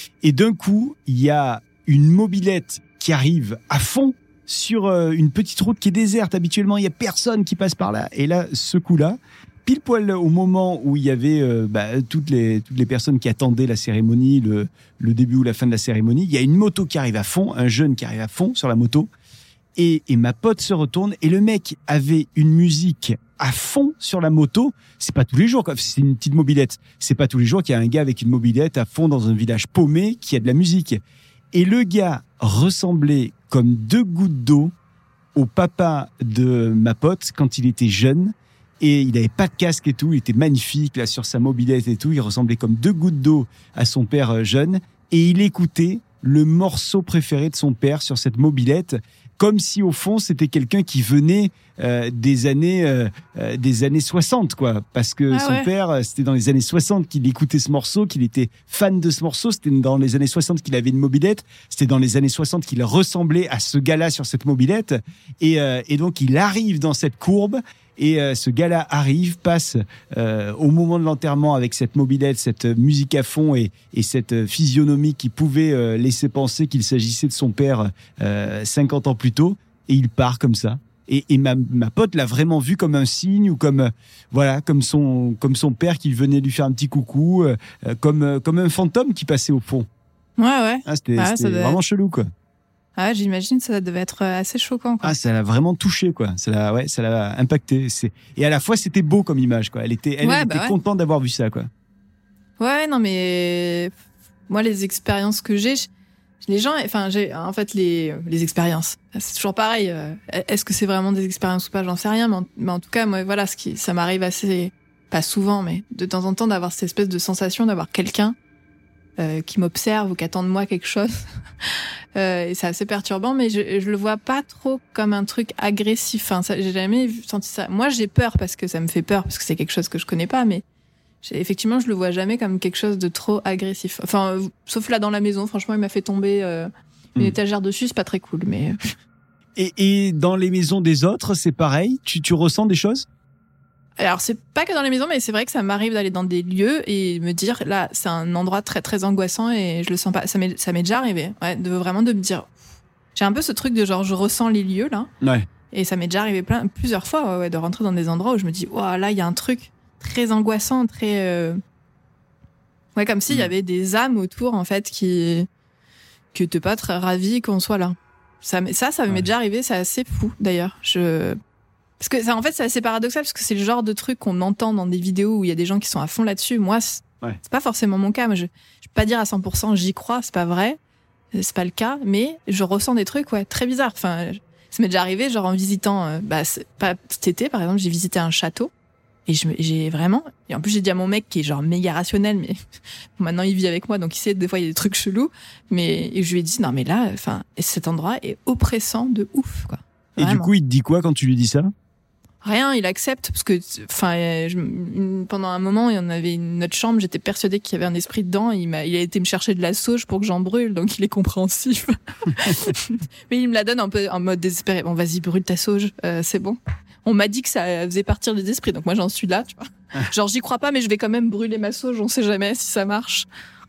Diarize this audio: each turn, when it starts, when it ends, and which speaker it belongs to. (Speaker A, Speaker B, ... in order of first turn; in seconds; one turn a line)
Speaker A: 0.2-19.1
Speaker A: 19.8-31.0
Speaker A: 31.5-34.7
Speaker A: 35.3-89.9
Speaker B: 55.3-55.7
Speaker B: 90.4-91.8
Speaker A: 90.8-92.3
Speaker B: 93.0-95.1
Speaker A: 95.0-101.7
Speaker B: 100.2-100.7
Speaker B: 102.6-103.9
Speaker B: 104.5-105.9
Speaker B: 106.4-118.3
Speaker B: 119.2-121.1
Speaker B: 121.6-130.6
Speaker B: 131.2-138.8
Speaker A: 139.6-143.1
Speaker B: 144.0-152.5
Speaker B: 153.1-155.1
Speaker A: 155.2-155.5
Speaker B: 155.7-161.6
Speaker B: 162.9-165.5
Speaker B: 166.3-171.4
Speaker B: 172.0-180.8
Speaker B: 181.3-188.7
Speaker B: 189.3-192.6
Speaker B: 193.2-200.5
Speaker A: 200.2-201.7
Speaker B: 202.4-223.3